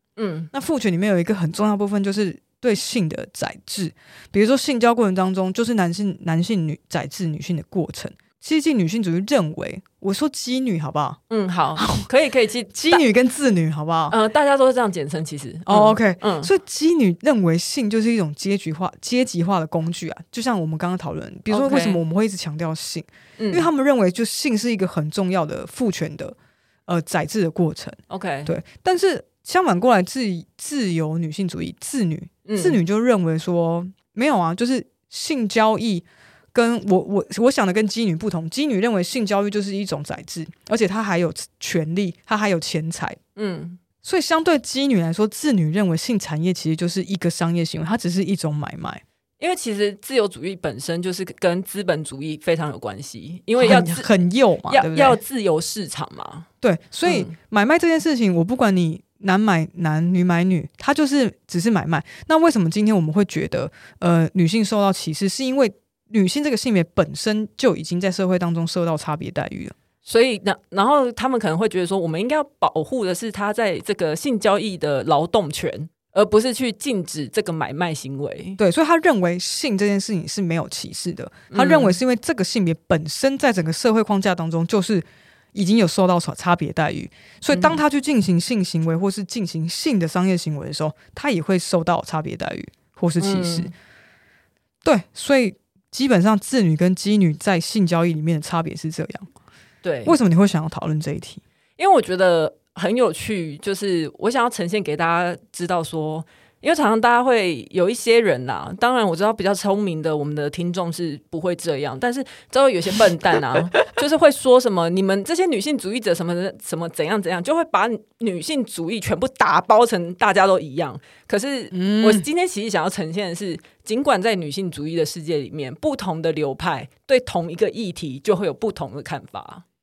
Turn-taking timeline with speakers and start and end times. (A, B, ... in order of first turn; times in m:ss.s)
0:00.2-0:00.5 A
0:00.5-0:11.2 B
0:11.3-0:13.0 A
0:11.8-0:12.0 B
0:12.7-0:14.2 B
0:14.1-0:16.5 A
0:15.7-0:26.3 B
0:21.5-0:22.0 A
0:23.4-0:23.7 A
0:26.9-0:43.2 B
0:28.1-0:28.5 A
0:32.4-0:32.8 A
0:43.4-0:43.8 A
0:44.0-0:49.0 B
0:49.4-0:54.1 A
0:53.6-0:55.2 B
0:54.7-0:56.5 A
0:56.6-1:09.7 B
0:57.0-0:57.3 A
1:10.0-1:18.6 A
1:18.6-1:33.7 B
1:21.5-1:22.0 A
1:27.5-1:27.8 A
1:33.2-1:33.7 A
1:34.8-1:39.3 B
1:39.8-1:40.2 A
1:40.0-1:41.4 B
1:41.8-2:09.6 A
2:01.7-2:02.3 B